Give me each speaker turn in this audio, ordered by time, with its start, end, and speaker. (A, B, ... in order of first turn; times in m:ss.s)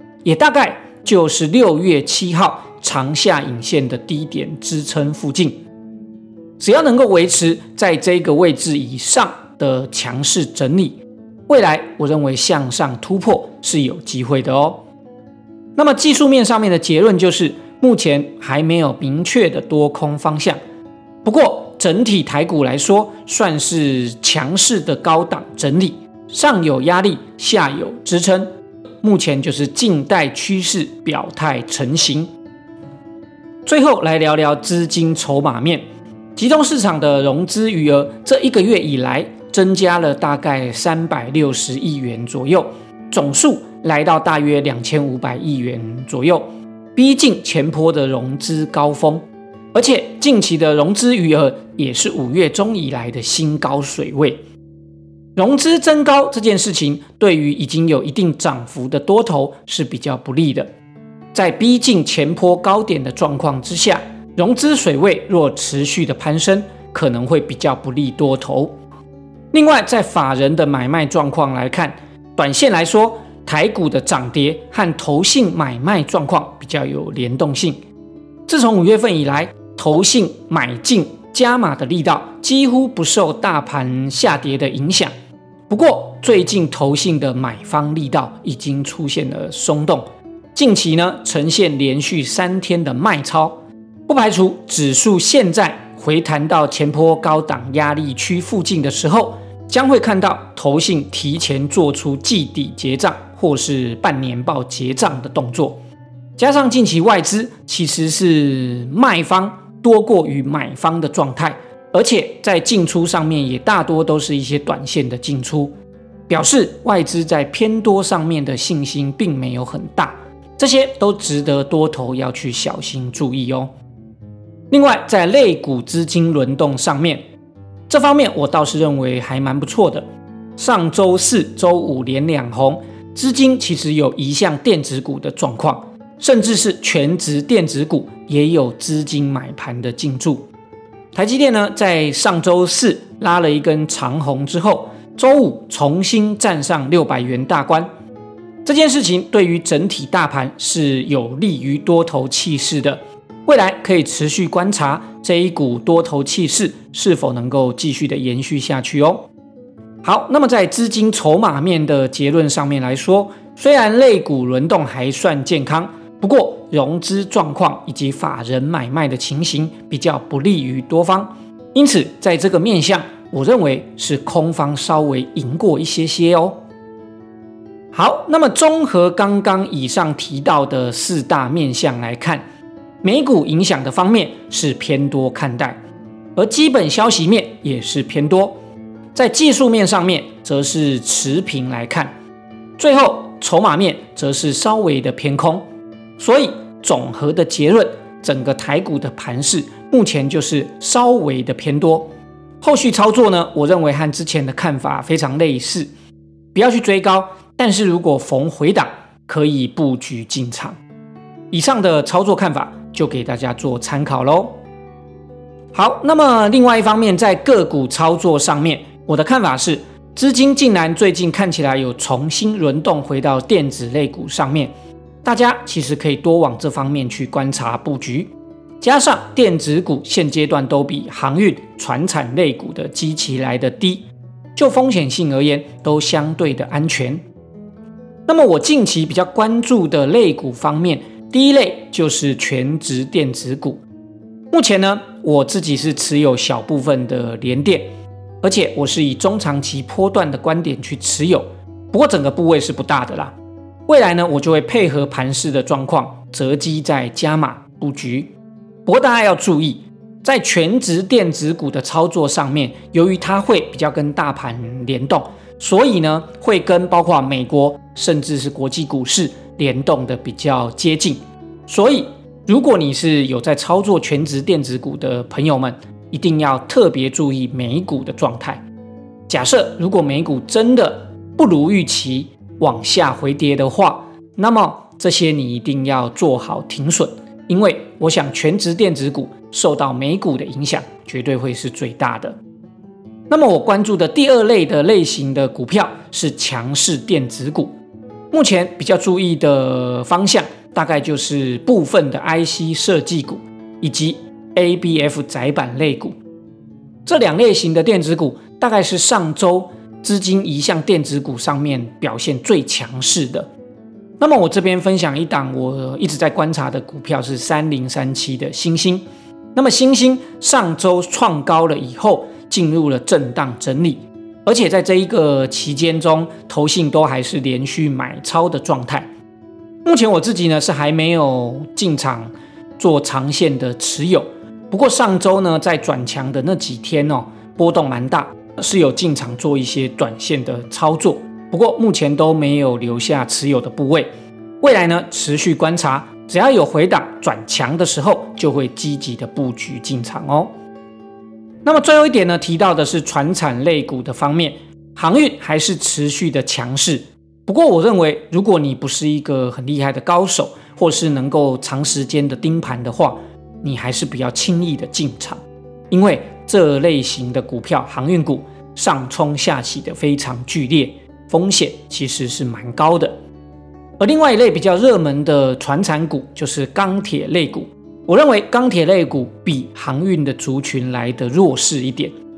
0:00.2-0:05.6 A
0:06.6-0:14.8 A
0:15.8-0:20.6 A
0:21.2-0:32.3 A
0:33.6-0:54.4 A
0:55.4-1:00.7 A
1:01.3-1:08.7 A
1:09.5-1:17.8 A
1:18.5-1:25.1 A
1:25.7-1:45.8 A
1:46.4-1:55.7 A
1:56.3-2:03.7 A
2:04.7-2:07.2 A
2:07.9-2:10.0 A
2:10.6-2:20.5 A
2:21.1-2:27.9 A
2:28.6-2:39.3 A
2:40.0-2:56.6 A
2:57.9-3:02.4 A
3:03.0-3:05.8 A
3:06.3-3:08.6 A
3:09.1-3:12.1 A
3:12.8-3:15.6 A
3:16.2-3:25.9 A
3:26.5-3:30.8 A
3:31.5-3:34.6 A
3:35.7-3:44.7 A
3:45.2-3:57.2 A
3:58.3-4:03.8 A
4:04.5-4:07.9 A
4:08.4-4:13.3 A
4:13.9-4:18.3 A
4:18.8-4:38.6 A
4:39.3-4:52.4 A
4:53.3-4:57.7 A
4:58.3-5:06.2 A
5:07.0-5:13.5 A
5:14.2-5:29.1 A
5:29.8-5:44.1 A
5:44.6-5:50.5 A
5:51.6-6:13.1 A
6:14.0-6:22.1 A